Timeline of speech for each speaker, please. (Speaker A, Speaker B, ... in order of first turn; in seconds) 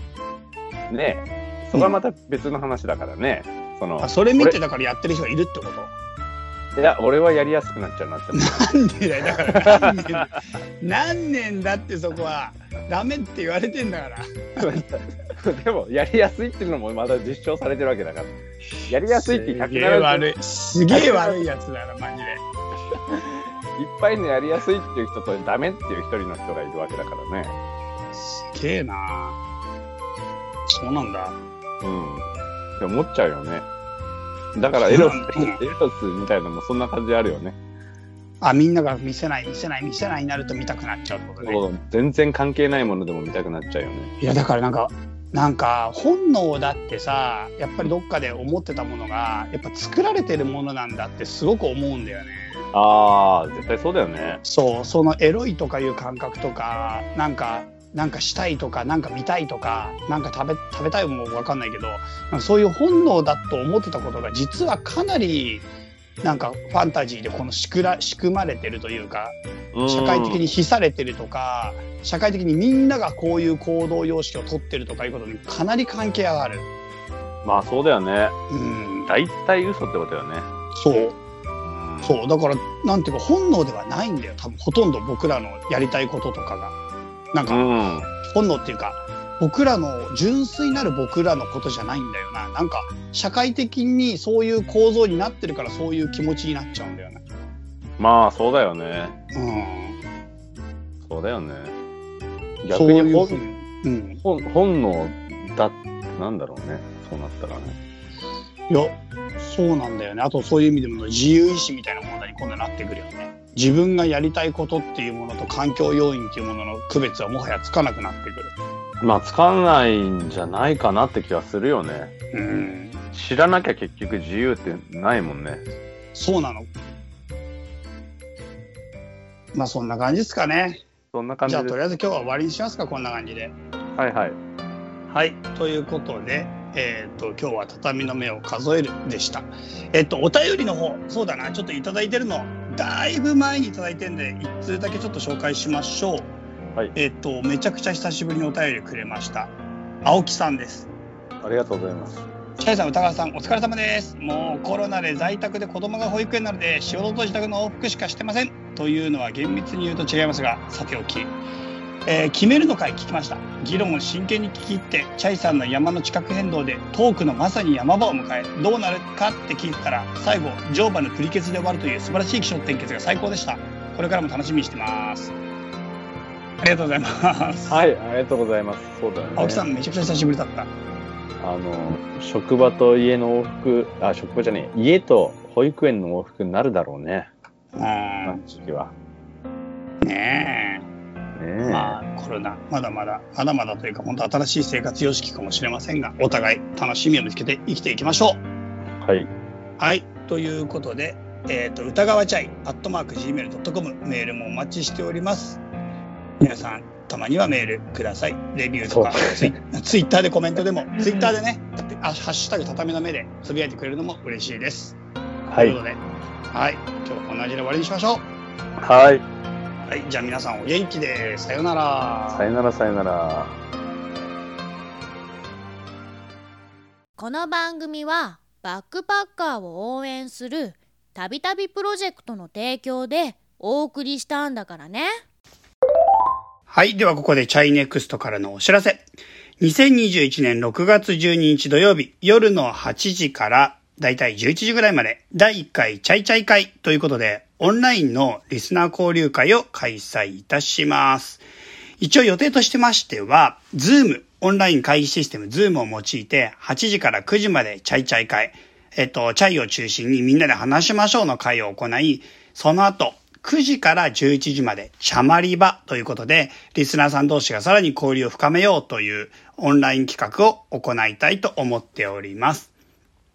Speaker A: 0.9-4.5, 6.8-8.7, 9.3-10.2, 14.6-18.3, 18.9-20.3, 20.9-21.4, 22.9-27.5, 31.8-32.2, 32.8-33.6, 34.5-37.5, 41.4-44.1, 52.7-54.4, 69.7-70.4, 77.4-78.4, 79.1-80.5, 81.6-82.1, 87.5-88.1, 98.0-99.2, 101.0-101.7, 102.6-103.5, 104.2-107.8, 119.0-122.1, 123.1-125.6, 131.1-131.8, 133.9-134.4, 151.4-152.2, 177.7-179.6, 181.4-187.3, 188.2-188.9, 191.3-192.0, 198.9-199.3, 208.9-209.6, 215.5-215.8, 218.8-219.2, 222.3-223.6
Speaker B: 4.0-5.9, 8.3-14.8, 18.8-22.4, 28.1-29.4, 30.7-31.4, 34.8-35.6, 38.4-41.6, 44.2-52.6, 54.4-65.7, 66.2-76.7, 78.5-79.1, 80.7-81.2, 82.0-86.8, 87.3-87.7, 88.2-97.2, 99.3-100.0, 102.7-104.2, 108.7-118.5, 122.3-123.0, 126.1-126.7, 129.5-130.8, 131.4-133.5, 135.1-146.3, 146.9-150.9, 152.6-161.3, 162.1-175.3, 176.6-177.8, 179.3-180.7, 187.8-188.4, 190.0-190.9, 191.6-198.4, 199.8-205.6, 206.4-215.0, 215.5-218.2, 219.8-222.4, 236.7-239.1, 239.6-251.4, 252.0-272.7
Speaker C: 227.2-235.2